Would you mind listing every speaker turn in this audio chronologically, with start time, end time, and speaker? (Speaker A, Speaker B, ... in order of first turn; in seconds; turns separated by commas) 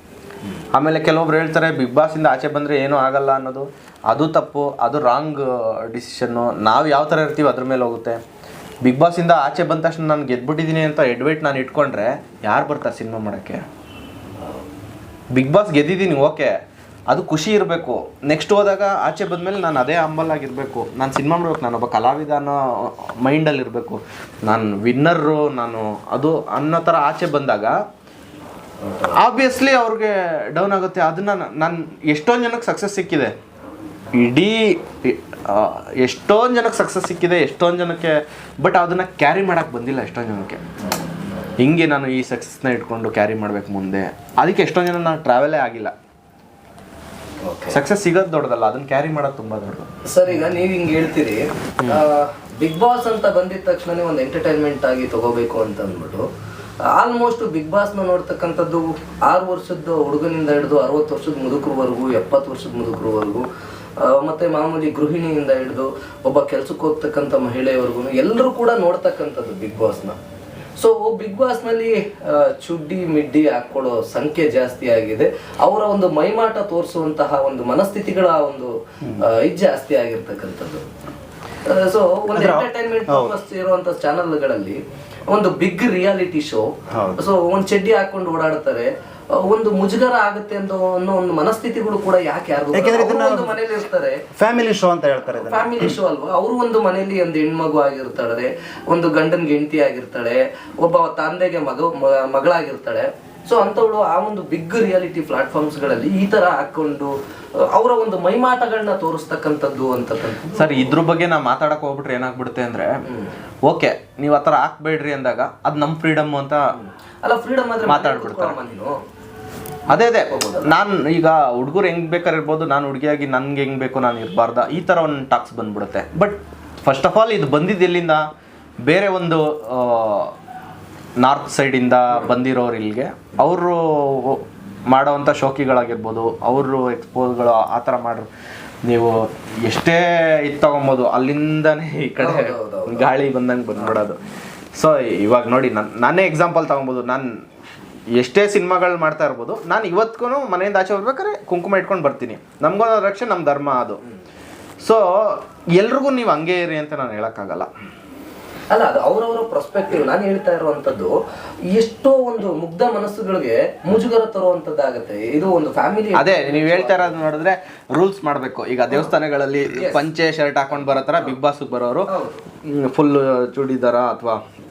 Speaker A: 0.7-8.2, Speaker A: 8.8-13.6, Speaker A: 15.3-16.5, Speaker A: 17.1-27.8, Speaker B: 28.9-29.1, Speaker A: 29.1-33.3, Speaker A: 34.1-40.6, Speaker A: 41.6-45.9, Speaker B: 47.4-47.8, Speaker A: 47.7-49.9, Speaker B: 50.1-56.3, Speaker B: 56.9-63.5, Speaker B: 64.0-70.2, Speaker B: 70.8-80.8, Speaker B: 81.7-84.8, Speaker C: 82.3-83.4, Speaker B: 85.3-94.2, Speaker C: 86.9-87.2, Speaker C: 92.7-93.6, Speaker C: 94.3-96.0, Speaker B: 95.4-111.0, Speaker A: 110.5-113.0, Speaker B: 113.1-113.3, Speaker A: 113.7-116.7, Speaker B: 116.8-119.0, Speaker A: 117.8-118.6, Speaker A: 119.9-128.2, Speaker B: 119.9-120.8, Speaker A: 128.9-130.3, Speaker A: 131.2-138.3, Speaker A: 138.8-144.2, Speaker B: 142.2-143.1, Speaker A: 144.7-147.3, Speaker A: 148.1-154.0, Speaker A: 154.8-157.7, Speaker B: 158.7-161.2, Speaker B: 161.7-167.2, Speaker A: 166.2-172.1, Speaker B: 169.7-170.1, Speaker B: 172.1-172.4, Speaker A: 172.6-174.4